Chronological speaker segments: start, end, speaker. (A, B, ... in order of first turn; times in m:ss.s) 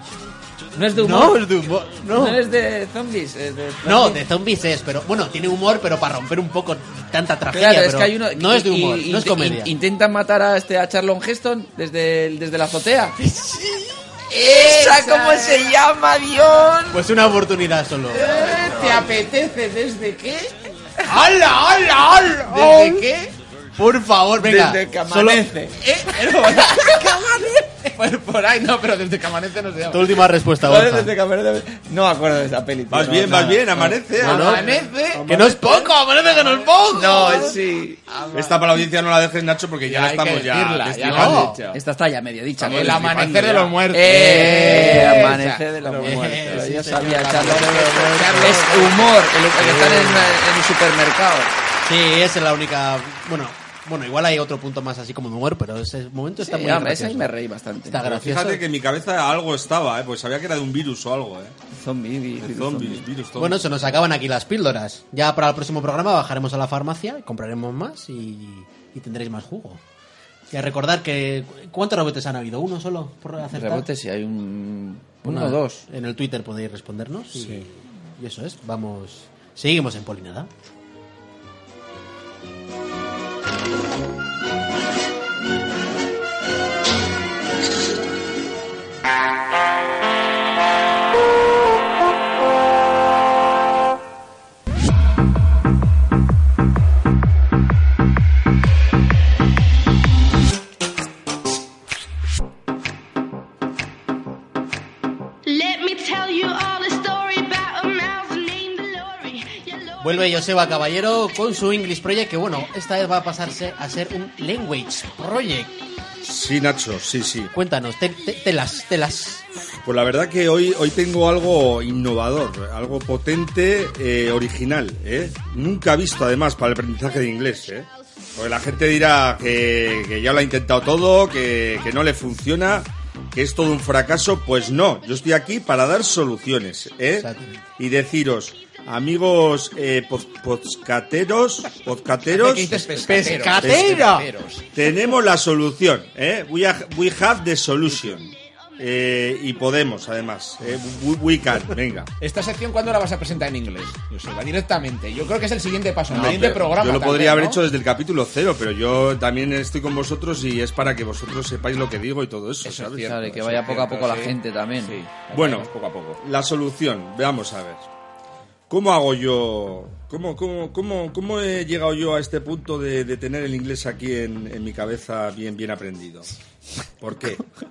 0:00.8-0:04.2 A
0:01.0-0:02.4 B
0:03.8-0:09.7 B
0:07.5-0:13.3 A
0:14.3-0:17.0 A
0:14.3-0:15.7 C
0:16.9-0:18.7 B
0:18.1-0:23.3 C
0:21.1-0:23.1 B
0:23.8-0:25.5 B
0:24.4-0:25.7 A
0:25.8-0:30.3 C
0:29.9-0:31.1 B
0:30.6-0:34.6 A
0:32.9-0:35.9 D
0:34.2-0:34.7 B
0:34.2-0:35.3 C
0:35.3-0:37.6 B
0:36.9-0:38.0 A
0:38.1-0:38.8 C
0:38.3-0:41.6 D
0:39.8-0:41.8 C
0:41.0-0:41.6 B
0:41.7-0:47.8 A
0:42.6-0:49.2 C
0:42.9-0:43.4 D
0:44.1-0:45.4 B
0:45.9-0:49.0 B
0:48.4-0:51.5 A
0:49.6-0:50.4 B
0:51.8-0:57.3 B
0:56.4-0:58.0 A
0:57.9-0:58.6 B
0:58.0-1:01.6 D
1:01.7-1:03.1 A
1:02.4-1:03.9 D
1:03.4-1:09.8 B
1:10.5-1:13.9 B
1:13.4-1:15.8 A
1:15.2-1:20.5 B
1:45.5-1:50.3 E
1:50.0-1:55.8 B
1:56.2-1:57.5 D
1:57.5-1:59.5 B
1:59.8-2:24.1 D
2:17.2-2:17.5 B
2:22.3-2:24.7 C
2:23.0-2:24.3 B
2:24.7-2:32.1 D
2:32.2-2:37.6 C
2:36.1-2:43.2 D
2:42.6-2:46.2 C
2:42.7-2:45.0 A
2:45.3-2:47.9 D
2:48.7-2:56.3 D
2:57.0-2:57.4 D